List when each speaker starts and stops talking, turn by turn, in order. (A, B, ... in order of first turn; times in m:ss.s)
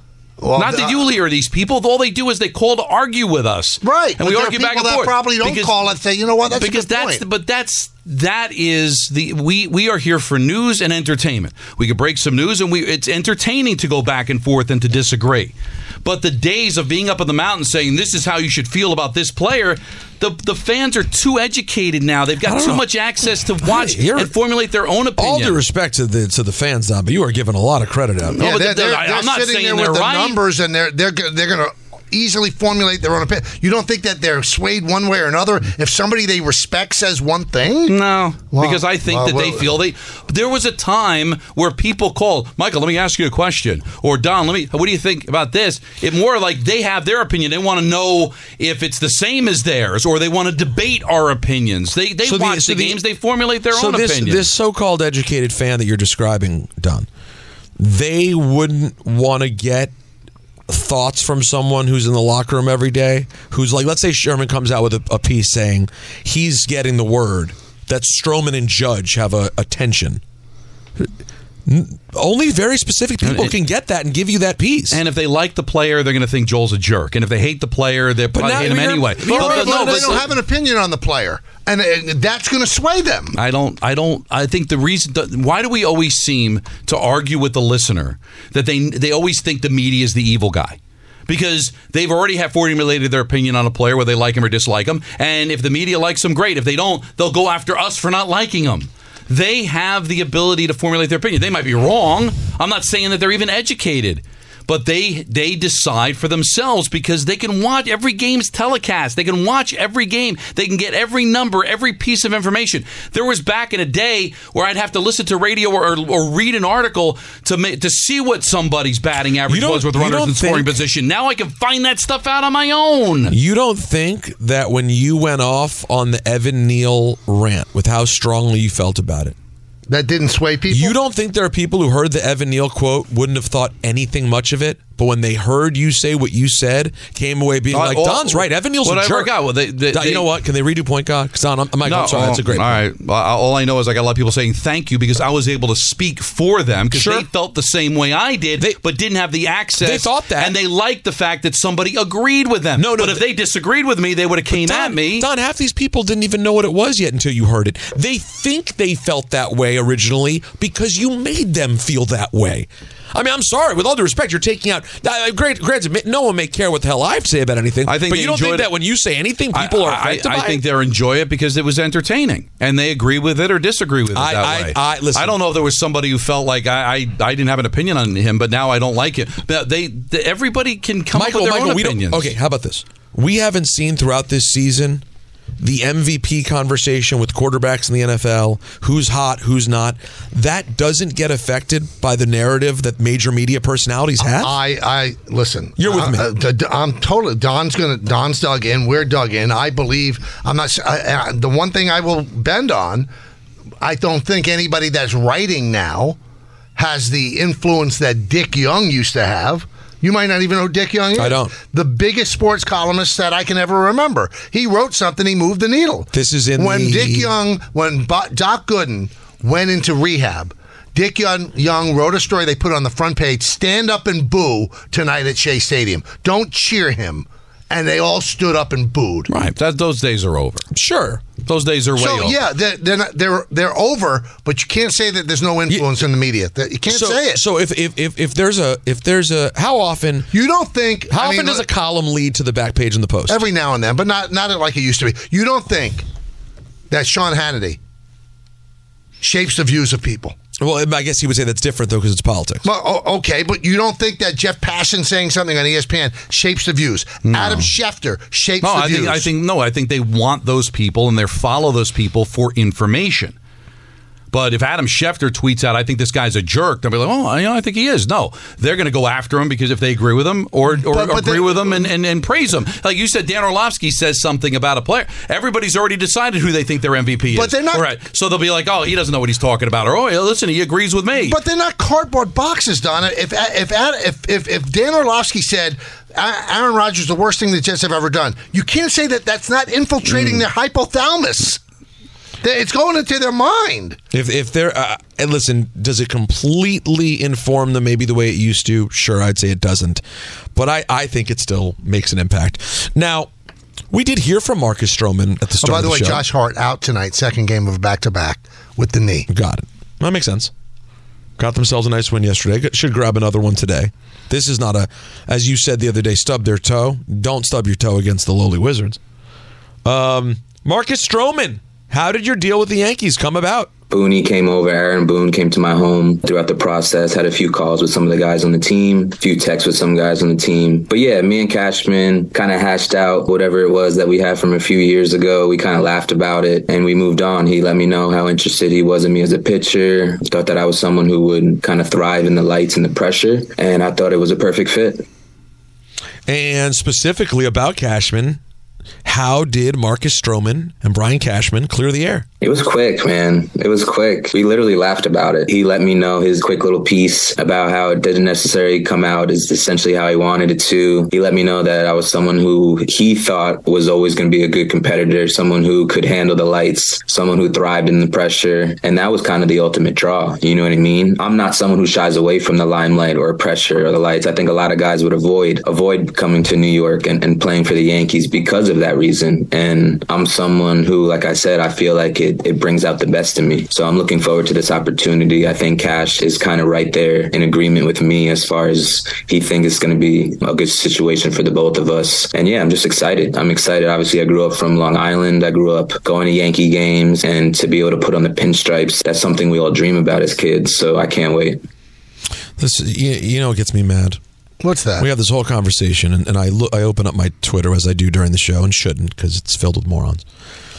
0:00.4-0:01.0 A
0:00.5-0:05.8 B
0:03.8-0:07.2 A
0:06.5-0:25.6 B
0:22.4-0:22.8 C
0:23.6-0:24.3 C
0:25.2-0:28.4 C
0:28.3-0:30.4 B
0:28.4-0:38.0 A
0:37.8-0:54.5 B
0:38.5-0:39.7 A
0:52.2-0:53.0 C
0:53.7-0:57.1 C
0:57.8-0:59.9 C
1:00.7-1:10.2 C
1:11.6-1:15.0 C
1:13.2-1:13.6 B
1:14.9-1:20.3 B
1:18.3-1:20.3 C
1:19.3-1:23.4 A
1:23.3-2:03.3 B
1:59.5-2:00.7 C
2:03.3-2:09.4 C
2:09.9-2:10.9 A
2:10.7-2:19.3 C
2:17.7-2:20.3 B
2:19.9-2:22.8 C
2:21.8-2:35.3 B
2:26.9-2:27.2 C
2:29.8-2:30.6 C
2:32.8-2:33.2 C
2:34.5-2:50.6 C
2:47.8-2:48.7 B
2:49.5-3:02.3 B
2:54.1-2:55.4 C
3:01.1-3:05.0 C
3:05.6-3:14.6 C
3:14.2-3:23.1 A
3:15.8-3:16.3 C
3:23.8-3:26.2 A
3:26.8-3:49.3 A
3:31.1-3:31.5 C
3:36.1-3:37.3 C
3:49.3-3:50.6 B
3:50.7-3:51.2 C
3:51.4-3:52.4 B
3:52.0-3:57.4 A
3:56.9-4:00.3 C
4:00.3-4:01.6 A
4:01.1-4:03.4 C
4:03.3-4:06.0 A
4:06.9-4:07.8 A
4:09.2-4:10.4 A
4:10.6-4:12.6 C
4:12.6-4:19.3 A
4:17.2-4:17.7 B
4:18.6-4:23.4 B
4:24.3-4:41.4 B
4:30.8-4:31.8 A
4:37.3-4:37.8 A
4:41.2-4:51.6 A
4:52.4-4:54.0 A
4:54.1-5:00.0 C
5:00.5-5:03.3 C
5:03.9-5:06.2 C
5:05.6-5:09.3 A
5:09.3-5:10.5 C
5:11.4-5:19.0 C
5:19.8-5:23.7 C
5:23.9-5:45.0 D
5:46.3-5:48.4 C
5:49.0-5:52.2 C
5:52.4-6:41.6 D
6:42.6-6:44.2 C
6:44.6-6:45.1 A
6:45.0-6:50.2 C